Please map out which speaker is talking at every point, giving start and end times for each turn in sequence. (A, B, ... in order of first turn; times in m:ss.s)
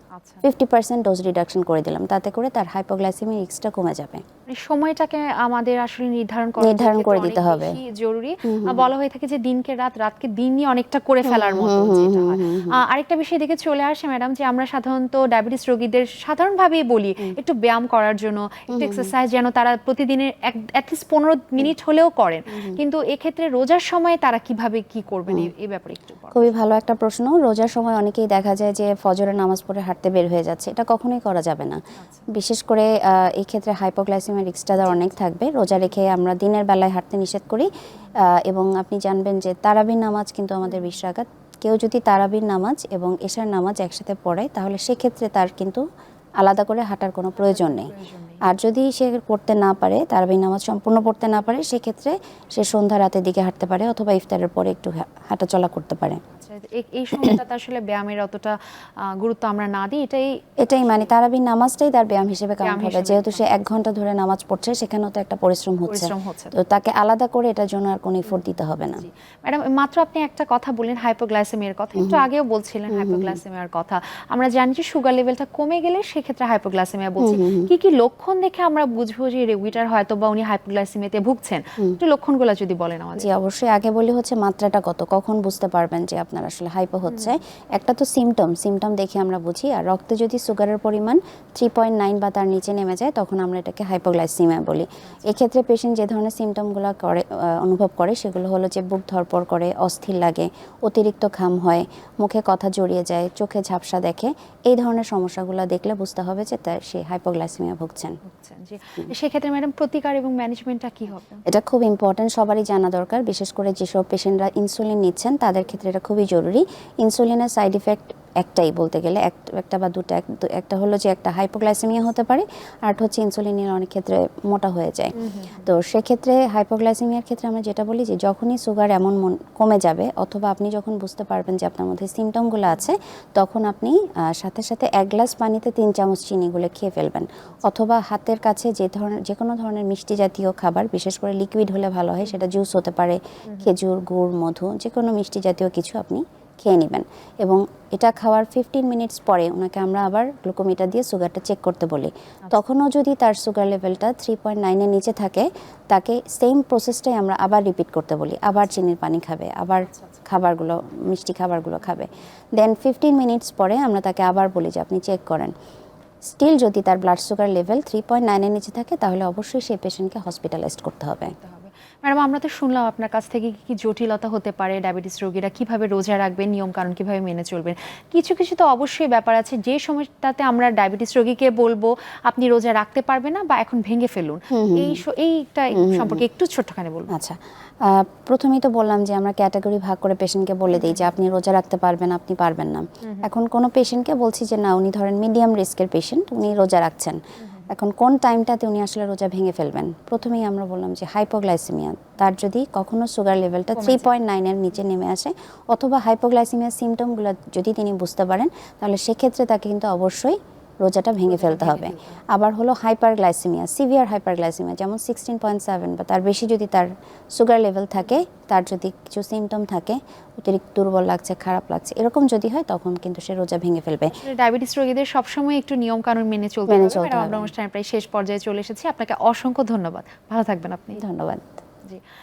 0:00.2-0:00.4 A
0:00.4-0:04.2 B
0:04.5-0:26.5 A
0:06.6-0:07.8 B
0:08.4-0:08.9 B
0:11.2-0:12.8 B
0:18.7-0:19.1 B
0:22.5-0:22.8 B
0:26.3-0:31.8 B
0:32.0-0:32.3 A
0:32.4-0:37.7 B
0:38.2-0:45.8 B
0:46.4-0:47.9 B
0:47.4-0:48.4 A
0:48.5-0:56.2 B
0:56.3-1:00.5 A
1:00.6-1:09.1 B
1:02.6-1:03.4 A
1:05.9-1:06.5 A
1:09.0-1:23.3 A
1:12.0-1:12.2 B
1:12.9-1:13.4 B
1:17.2-1:17.7 B
1:23.2-1:48.2 B
1:27.1-1:27.4 A
1:48.2-1:51.4 A
1:51.5-2:05.1 B
2:05.2-2:05.7 A
2:05.7-2:45.5 B
2:23.5-2:23.7 A
2:46.2-2:51.4 B
2:51.4-3:07.1 A
3:04.5-3:05.0 B
3:05.7-3:06.2 B
3:07.1-3:44.1 B
3:10.7-3:11.0 A
3:13.0-3:13.3 A
3:17.4-3:17.7 A
3:23.8-3:24.1 A
3:31.3-3:32.2 A
3:44.1-3:51.0 A
3:46.7-3:47.5 B
3:51.0-3:51.6 B